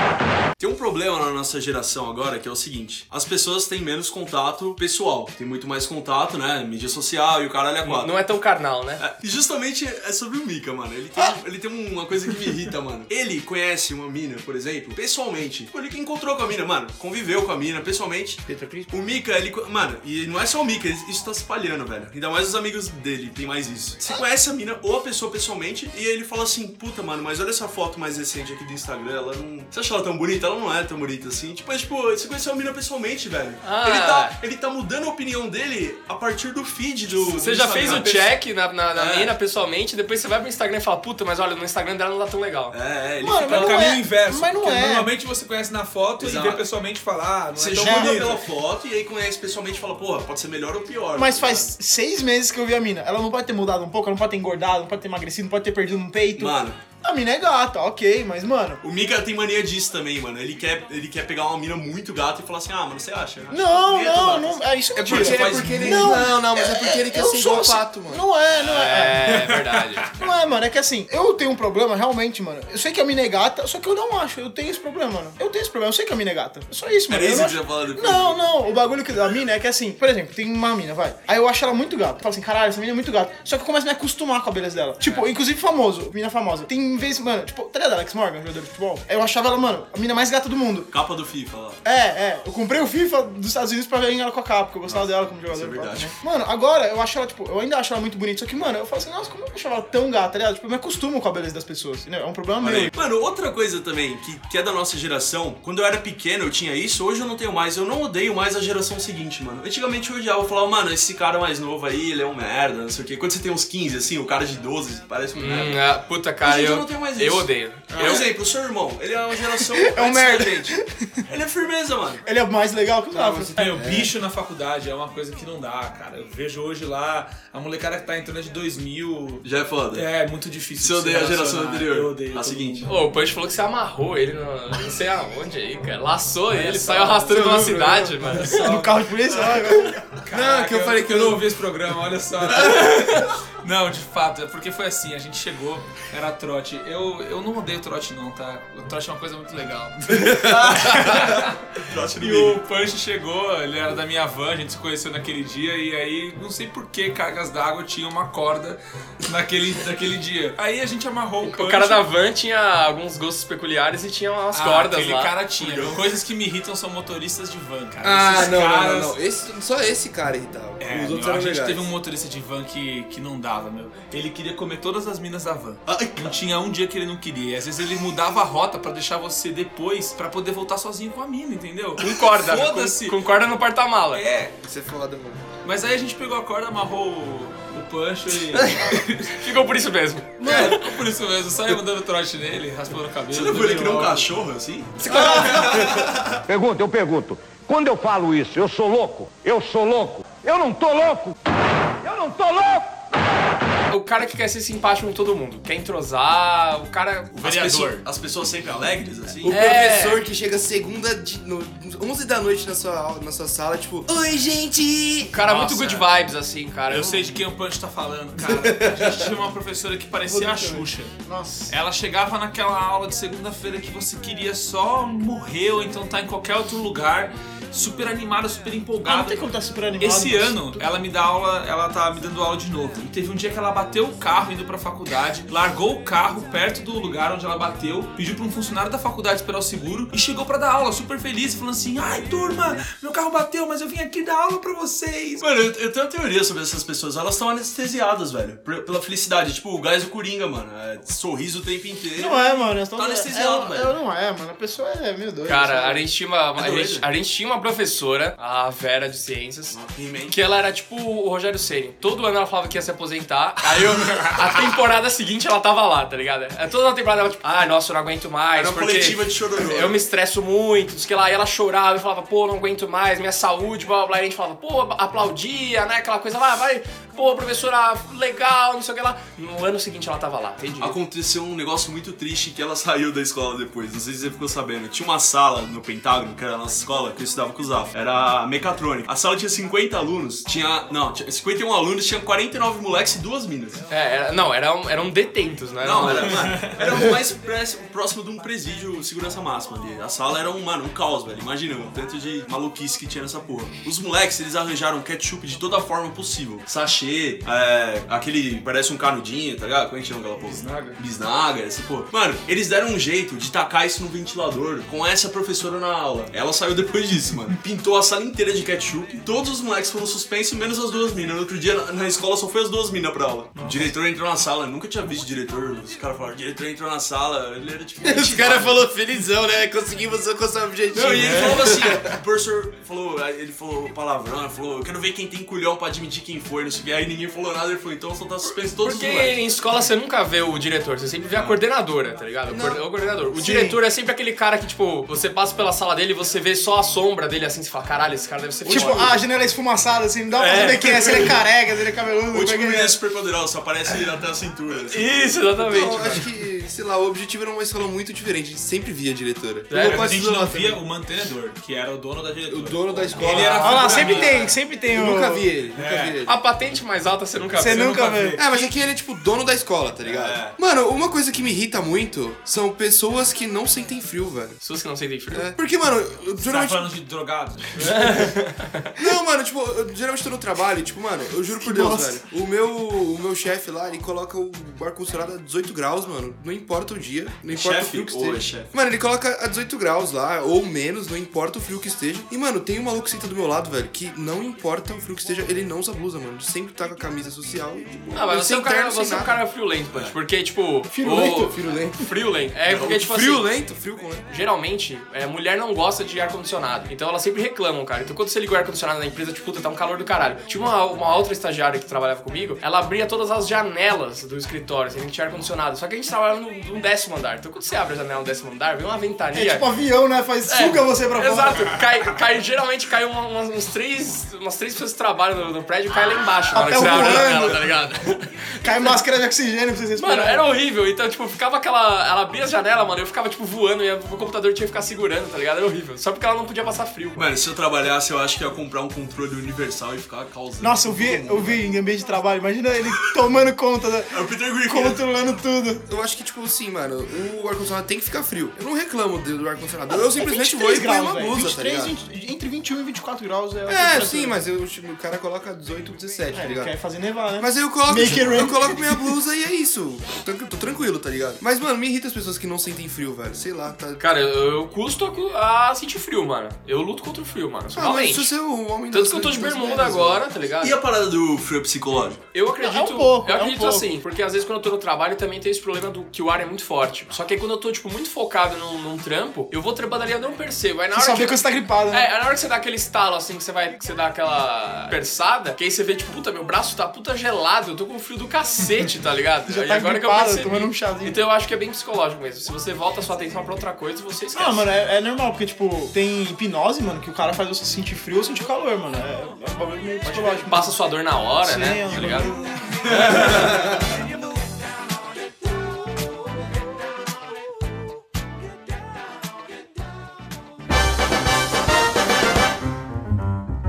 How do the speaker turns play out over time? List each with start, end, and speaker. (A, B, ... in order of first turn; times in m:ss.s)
0:00.6-0:08.1 A
0:07.8-0:09.0 B
0:09.0-0:38.4 A
0:18.4-0:18.9 C
0:33.6-0:34.3 B
0:37.2-0:42.8 B
0:38.9-0:39.3 A
0:42.7-0:44.0 A
0:43.2-0:45.1 D
0:43.4-0:48.4 E
0:46.2-0:46.6 A
0:47.6-0:51.7 A
0:47.8-0:48.3 D
0:51.1-0:58.8 D
0:56.3-0:56.8 A
0:58.8-1:06.2 A
1:03.5-1:09.4 D
1:05.0-1:08.2 C
1:08.6-1:10.1 B
1:09.3-1:10.1 E
1:10.2-1:30.9 D
1:17.1-1:18.4 A
1:30.9-1:31.8 A
1:31.8-1:42.9 D
1:34.9-1:36.1 A
1:42.6-1:55.9 A
1:55.3-1:58.2 B
1:56.4-2:02.2 A
1:59.6-2:01.1 D
2:02.2-2:03.6 D
2:03.1-2:04.1 C
2:03.6-2:12.9 E
2:09.4-2:10.0 A
2:10.8-2:12.9 A
2:12.8-2:18.6 B
2:16.5-2:18.9 E
2:17.3-2:18.5 C
2:18.4-2:20.0 D
2:20.2-2:42.0 E
2:20.3-2:21.4 C
2:31.8-2:32.6 A
2:41.4-2:45.3 B
2:44.5-2:49.2 E
2:45.6-2:46.1 A
2:48.0-2:51.9 C
2:50.8-3:03.3 E
2:55.9-2:56.4 A
3:02.0-3:04.2 B
3:04.1-3:04.6 E
3:04.6-3:05.4 C
3:05.6-3:09.4 E
3:09.3-3:10.8 B
3:10.4-3:14.3 E
3:13.3-3:16.4 A
3:15.0-3:15.8 B
3:16.0-3:21.3 F
3:22.0-3:23.0 F
3:23.9-3:27.9 B
3:27.4-3:29.6 A
3:27.5-3:28.0 E
3:29.4-3:35.4 C
3:29.4-3:30.2 B
3:35.3-3:37.2 B
3:35.4-3:36.0 E
3:36.9-3:41.2 E
3:38.5-3:39.2 C
3:40.3-3:41.7 D
3:41.7-3:49.4 E
3:49.0-3:50.8 D
3:50.0-4:05.4 E
4:05.4-4:14.0 A
4:12.2-4:16.0 D
4:15.4-4:19.8 B
4:16.5-4:17.1 A
4:19.7-4:20.4 A
4:20.3-4:41.0 B
4:28.5-4:30.0 A
4:40.8-4:53.8 A
4:53.9-4:56.4 B
4:55.8-5:28.8 A
4:56.3-4:56.8 E
5:10.4-5:11.0 E
5:28.0-5:32.2 C
5:30.9-5:39.4 A
5:38.4-5:49.2 B
5:41.3-5:41.6 A
5:42.5-5:43.8 C
5:48.6-5:53.0 D
5:50.4-5:51.3 B
5:52.3-5:55.3 A
5:54.9-5:56.3 B
5:55.6-6:00.8 C
5:59.7-6:00.1 B
5:59.7-6:04.5 E
6:02.5-6:06.4 C
6:03.2-6:04.0 B
6:03.6-6:05.5 D
6:05.7-6:06.2 E
6:06.2-6:08.0 B
6:07.6-6:08.4 D
6:07.6-6:08.4 E
6:08.4-6:14.6 C
6:10.0-6:10.6 A
6:14.6-6:15.5 B
6:15.3-6:16.9 C
6:16.4-6:18.3 E
6:17.8-6:18.1 C
6:17.9-6:18.9 B
6:19.0-6:39.4 C
6:21.6-6:22.2 D
6:27.5-6:28.7 A
6:38.1-6:43.5 B
6:39.9-6:40.2 A
6:40.9-6:41.6 D
6:41.0-6:42.0 C
6:42.7-6:44.2 C
6:44.3-6:59.6 B
6:59.3-7:01.8 D
7:00.5-7:09.0 B
7:06.5-7:07.7 D
7:08.6-7:10.4 D
7:10.0-7:17.2 B
7:17.2-7:21.7 A
7:20.6-7:25.8 D
7:24.1-7:25.0 A
7:25.9-7:31.9 C
7:29.9-7:34.4 D
7:33.7-7:36.7 C
7:36.3-7:39.1 D
7:37.4-7:44.1 C
7:44.0-7:48.3 B
7:47.7-7:50.2 C
7:48.9-7:50.8 B
7:50.6-7:52.2 A
7:52.3-8:01.4 B
7:52.6-7:54.0 D
8:00.9-8:02.1 D
8:01.9-8:14.7 B
8:09.5-8:11.2 D
8:14.3-8:20.9 D
8:20.0-8:22.3 B
8:21.4-8:22.4 D
8:22.9-8:23.6 B
8:23.0-8:23.3 A
8:23.1-8:23.5 D